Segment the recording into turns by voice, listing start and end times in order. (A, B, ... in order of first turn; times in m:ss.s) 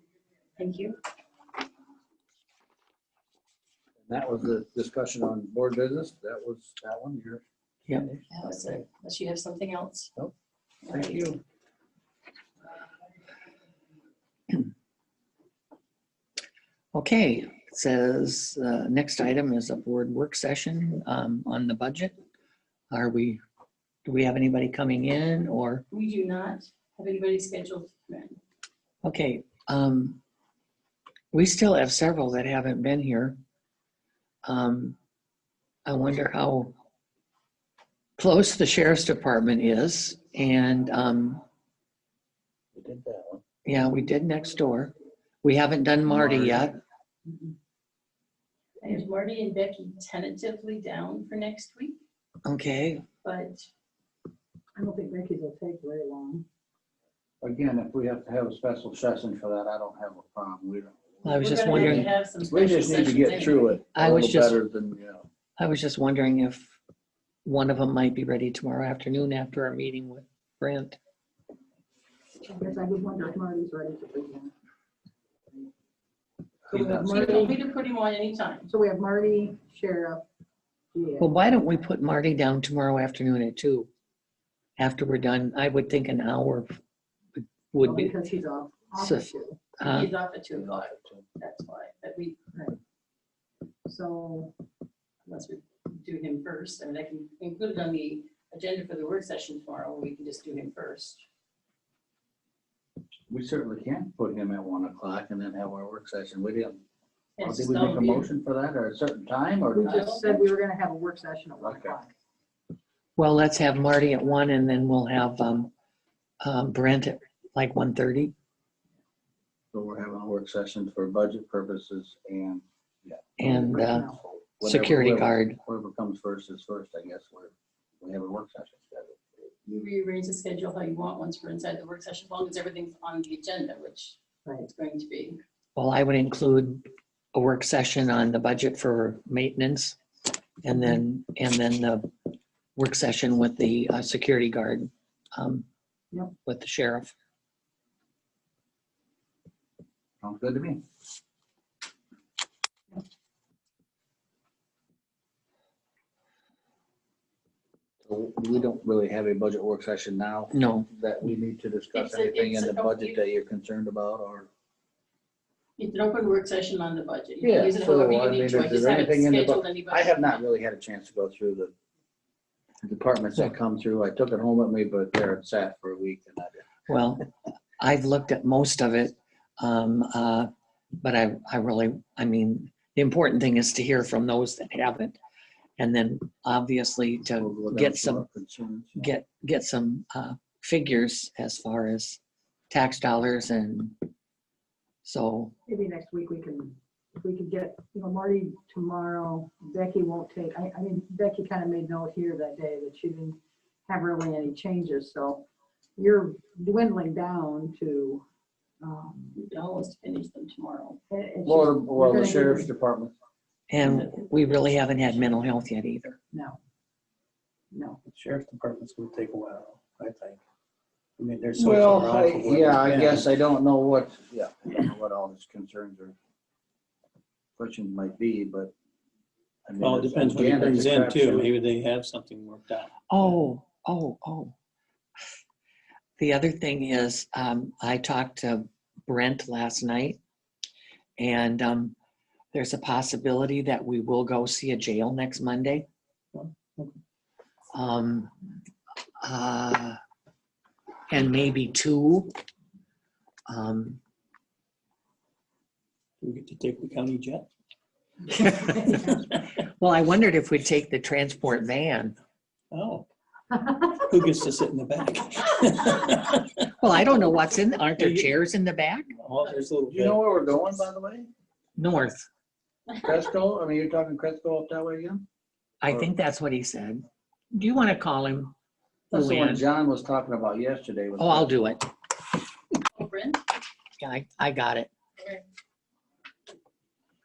0:00.6-0:01.0 A
0:04.1-0:07.4 B
0:07.9-0:08.3 B
0:08.3-0:10.1 A
0:10.8-0:11.3 A
0:10.9-0:11.4 B
0:16.9-0:22.2 C
0:22.9-0:23.4 C
0:24.1-0:25.8 C
0:25.9-0:28.4 A
0:29.0-0:30.2 C
0:31.3-0:33.4 C
0:34.4-0:35.0 C
0:35.9-0:36.7 C
0:38.2-0:41.4 C
0:42.8-0:43.4 B
0:43.6-0:46.8 C
0:46.1-0:46.7 B
0:48.8-0:52.0 A
0:52.5-0:53.0 C
0:53.2-0:53.7 A
0:54.8-0:56.4 D
0:57.4-1:05.3 B
1:01.2-1:02.1 C
1:01.4-1:03.8 A
1:04.0-1:04.6 C
1:05.6-1:06.8 C
1:07.4-1:11.0 C
1:12.4-1:14.5 D
1:16.7-1:17.5 B
1:16.7-1:17.6 D
1:17.0-1:18.7 A
1:18.7-1:20.2 D
1:20.9-1:21.4 D
1:21.2-1:23.9 C
1:24.8-1:26.7 C
1:27.7-1:28.2 C
1:27.8-1:29.6 D
1:29.0-1:30.1 C
1:29.8-1:32.4 A
1:33.9-1:34.5 D
1:35.3-1:41.2 A
1:43.3-1:46.8 B
1:47.4-1:48.3 A
1:47.4-1:50.0 B
1:49.7-1:52.1 D
1:49.8-1:50.4 A
1:51.6-1:52.0 B
1:53.2-1:55.7 C
1:56.4-1:58.3 C
1:59.7-2:03.3 B
2:03.4-2:04.1 C
2:03.4-2:04.2 D
2:04.1-2:09.5 B
2:04.6-2:05.6 C
2:09.7-2:15.4 A
2:15.8-2:16.8 C
2:17.4-2:20.0 C
2:20.6-2:22.1 C
2:22.8-2:25.7 C
2:26.4-2:27.2 C
2:30.2-2:30.8 B
2:38.0-2:44.5 B
2:40.5-2:40.9 C
2:41.9-2:43.2 A
2:45.8-2:50.1 A
2:47.4-2:51.7 B
2:52.8-2:56.6 B
2:56.9-2:57.3 C
2:57.8-3:00.5 C
3:01.0-3:05.2 C
3:05.8-3:08.2 C
3:07.4-3:09.1 B
3:09.0-3:14.0 C
3:15.0-3:15.6 C
3:15.7-3:25.4 D
3:26.0-3:28.2 D
3:28.8-3:29.4 D
3:29.4-3:31.0 A
3:31.1-3:32.7 D
3:31.4-3:33.1 B
3:33.7-3:36.2 C
3:36.3-3:36.6 D
3:37.7-3:38.0 D
3:38.1-3:40.4 E
3:41.2-3:43.3 E
3:41.6-3:46.2 B
3:47.6-3:48.7 B
3:49.7-3:51.5 B
3:49.8-3:53.0 E
3:53.1-3:54.5 C
3:56.2-4:00.2 C
4:01.2-4:02.0 C
4:02.5-4:05.9 C
4:06.3-4:07.0 E
4:07.7-4:08.3 C
4:09.2-4:10.0 C
4:11.1-4:12.3 C
4:13.5-4:14.0 C
4:16.2-4:17.5 E
4:18.3-4:22.2 C
4:19.1-4:19.4 E
4:22.7-4:23.1 E
4:23.7-4:26.7 E
4:26.8-4:29.1 C
4:28.0-4:28.3 E
4:29.2-4:30.2 E
4:29.9-4:31.3 B
4:31.8-4:32.3 C
4:33.0-4:35.2 B
4:35.8-4:38.5 C
4:39.1-4:39.7 C
4:39.1-4:41.7 B
4:41.2-4:41.8 C
4:42.9-4:43.4 A
4:44.0-4:44.9 C